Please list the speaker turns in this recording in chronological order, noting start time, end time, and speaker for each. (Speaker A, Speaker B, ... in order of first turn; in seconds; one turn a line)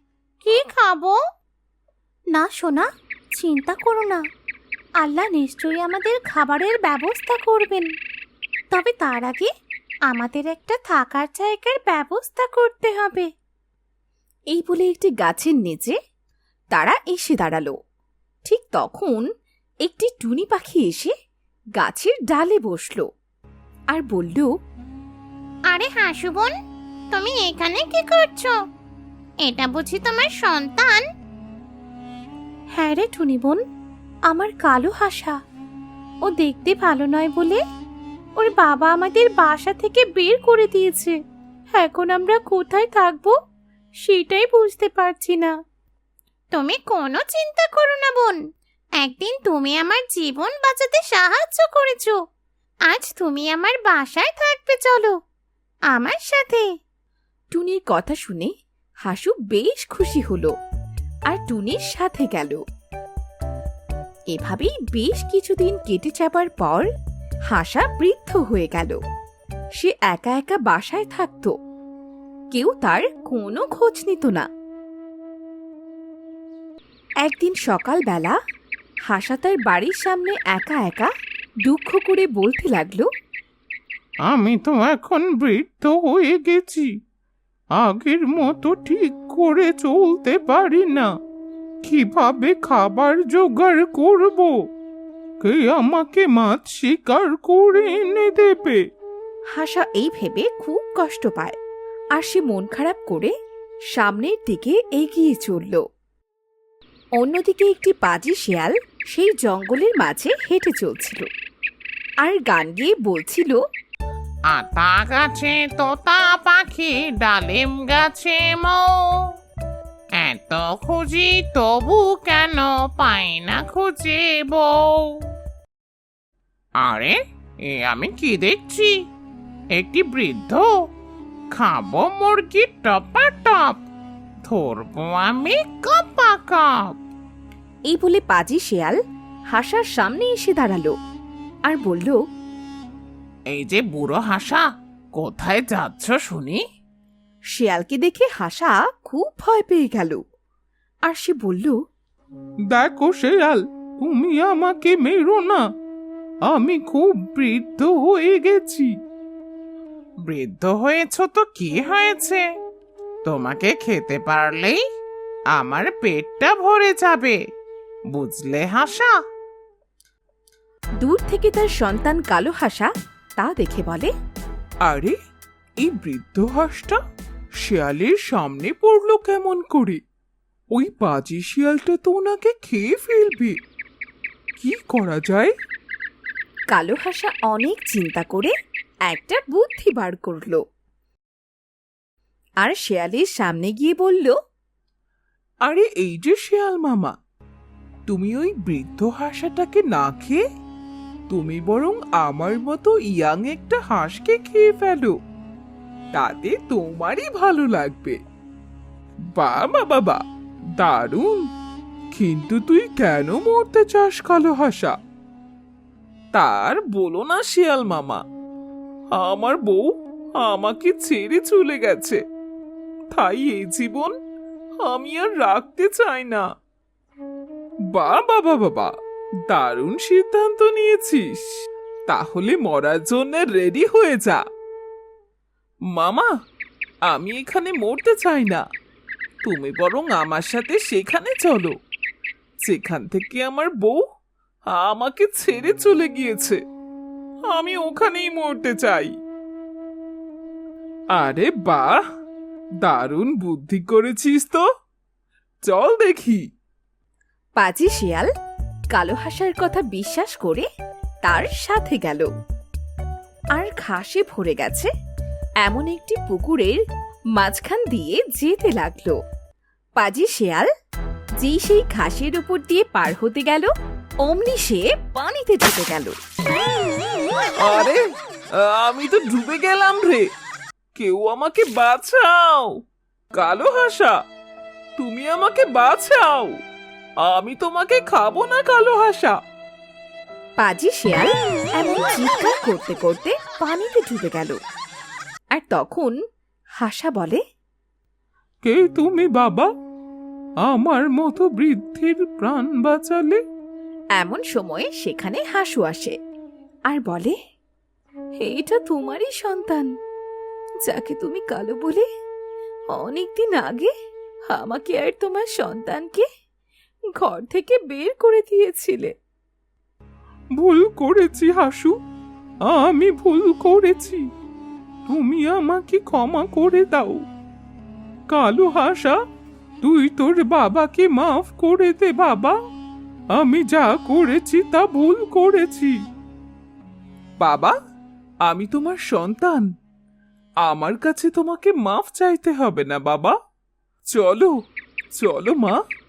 Speaker A: 0.4-1.2
Speaker A: 2.3-4.2
Speaker A: 5.0-7.9
Speaker A: 8.7-9.5
Speaker A: 10.1-13.3
Speaker B: 14.5-16.0
Speaker B: 16.7-17.7
Speaker B: 18.4-19.2
Speaker B: 19.9-21.1
Speaker B: 21.8-23.1
Speaker B: 23.9-24.5
Speaker A: 25.7-26.5
Speaker A: 27.1-28.6
Speaker A: 29.4-31.0
Speaker A: 32.8-33.6
Speaker A: 34.3-35.4
Speaker A: 36.2-37.6
Speaker A: 38.4-41.1
Speaker A: 41.8-43.3
Speaker A: 44.0-45.5
Speaker A: 46.5-48.4
Speaker A: 49.0-52.1
Speaker A: 52.9-55.1
Speaker A: 55.9-56.6
Speaker B: 57.5-58.5
Speaker B: 59.0-60.5
Speaker B: 61.3-62.6
Speaker B: 64.3-66.9
Speaker B: 67.5-69.0
Speaker B: 69.8-71.5
Speaker B: 72.5-74.5
Speaker B: 77.2-78.4
Speaker B: 79.1-81.1
Speaker B: 81.7-83.1
Speaker C: 84.3-86.9
Speaker C: 87.8-91.1
Speaker C: 91.8-94.5
Speaker C: 95.4-98.8
Speaker B: 99.5-101.6
Speaker B: 102.2-103.3
Speaker B: 103.9-105.8
Speaker B: 107.2-111.3
Speaker B: 112.2-113.6
Speaker C: 114.5-118.9
Speaker C: 120.2-125.2
Speaker C: 126.8-128.9
Speaker C: 129.8-130.7
Speaker C: 131.5-133.9
Speaker C: 134.4-136.9
Speaker B: 137.9-139.0
Speaker B: 139.5-140.9
Speaker B: 141.7-142.2
Speaker C: 143.5-144.6
Speaker C: 145.2-146.6
Speaker B: 147.6-150.2
Speaker B: 151.1-151.8
Speaker D: 152.7-155.6
Speaker D: 156.5-158.9
Speaker C: 160.3-162.4
Speaker C: 163.2-164.8
Speaker C: 165.5-167.4
Speaker C: 168.1-169.1
Speaker B: 171.0-174.1
Speaker D: 174.8-175.2
Speaker D: 175.8-177.0
Speaker D: 177.6-180.0
Speaker D: 180.7-183.6
Speaker D: 184.6-185.5
Speaker B: 186.7-188.5
Speaker B: 189.1-190.6
Speaker B: 192.6-194.3
Speaker D: 195.6-197.1
Speaker D: 198.1-200.4
Speaker D: 201.3-205.1
Speaker D: 206.1-208.2
Speaker D: 209.4-210.2
Speaker D: 210.8-211.4
Speaker D: 212.1-214.9
Speaker D: 216.3-218.2
Speaker D: 219.2-219.9
Speaker D: 220.4-222.2
Speaker D: 223.1-224.1
Speaker D: 224.8-226.4
Speaker D: 227.9-228.9
Speaker D: 229.5-231.4
Speaker D: 232.1-234.4
Speaker D: 235.9-236.3
Speaker D: 237.1-238.6
Speaker D: 239.4-241.8
Speaker D: 242.6-244.0
Speaker D: 244.7-246.6
Speaker D: 247.5-249.1
Speaker D: 251.2-252.0
Speaker D: 252.8-254.6
Speaker D: 255.7-256.4
Speaker B: 257.6-258.3
Speaker B: 258.9-260.7
Speaker B: 261.2-262.3
Speaker B: 263.6-264.9
Speaker B: 265.6-266.8
Speaker B: 267.4-269.1
Speaker B: 270.0-270.7
Speaker B: 271.4-273.7
Speaker B: 274.2-276.1
Speaker D: 277.6-278.0
Speaker D: 278.6-280.3
Speaker D: 281.0-282.7
Speaker D: 283.4-284.1
Speaker D: 285.0-286.6
Speaker D: 287.2-289.4
Speaker B: 290.6-294.6
Speaker B: 295.5-296.1
Speaker B: 296.8-297.4
Speaker D: 298.6-299.7
Speaker D: 300.7-303.4
Speaker B: 304.2-306.1
Speaker B: 306.9-307.4
Speaker B: 308.4-309.9
Speaker B: 310.9-312.1
Speaker B: 312.9-313.9
Speaker B: 314.5-316.2
Speaker B: 317.2-319.1
Speaker D: 320.6-321.9
Speaker D: 322.7-324.2
Speaker D: 325.1-327.2
Speaker D: 328.3-329.1
Speaker D: 329.8-332.5
Speaker D: 333.4-335.9
Speaker D: 337.4-337.7
Speaker D: 338.5-339.7
Speaker D: 340.6-343.3
Speaker D: 344.1-344.5
Speaker D: 345.2-345.8